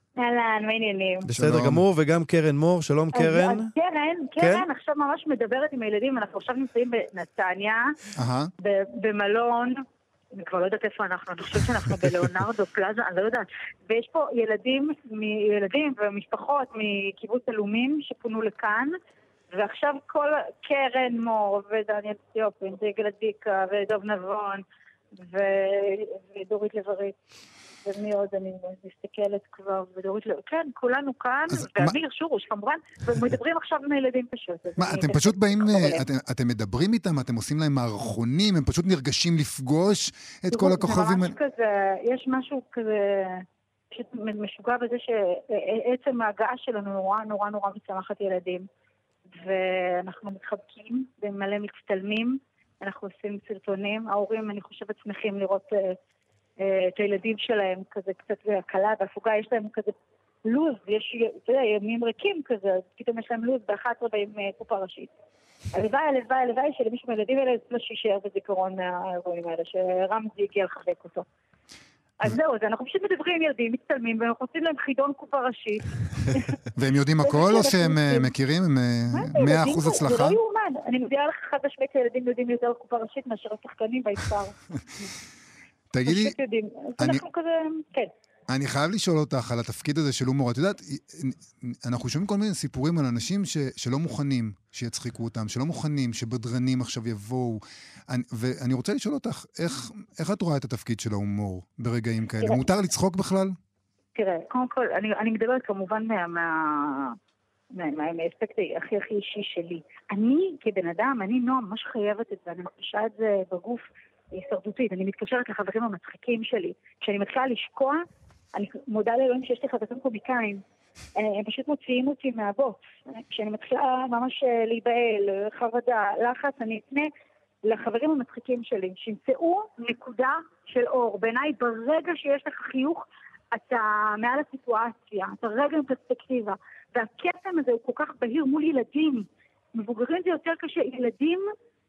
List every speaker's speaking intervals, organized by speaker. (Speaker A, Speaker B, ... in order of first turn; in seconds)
Speaker A: 0.2-1.3, 3.1-7.9, 8.6-9.8, 10.3-18.9, 19.5-27.2, 27.8-36.0, 40.5-48.7, 49.3-56.0, 56.6-59.9, 60.5-65.1, 65.7-71.2, 72.2-76.6, 77.2-78.3, 79.1-85.0, 86.1-88.1, 104.2-107.2, 107.7-118.0, 118.5-120.6, 121.2-127.1, 127.6-141.4
Speaker B: 1.3-3.7, 4.4-4.7
Speaker C: 1.3-1.9, 8.2-8.5, 31.5-32.0, 34.8-41.4, 76.7-80.4, 85.9-86.3, 88.5-103.5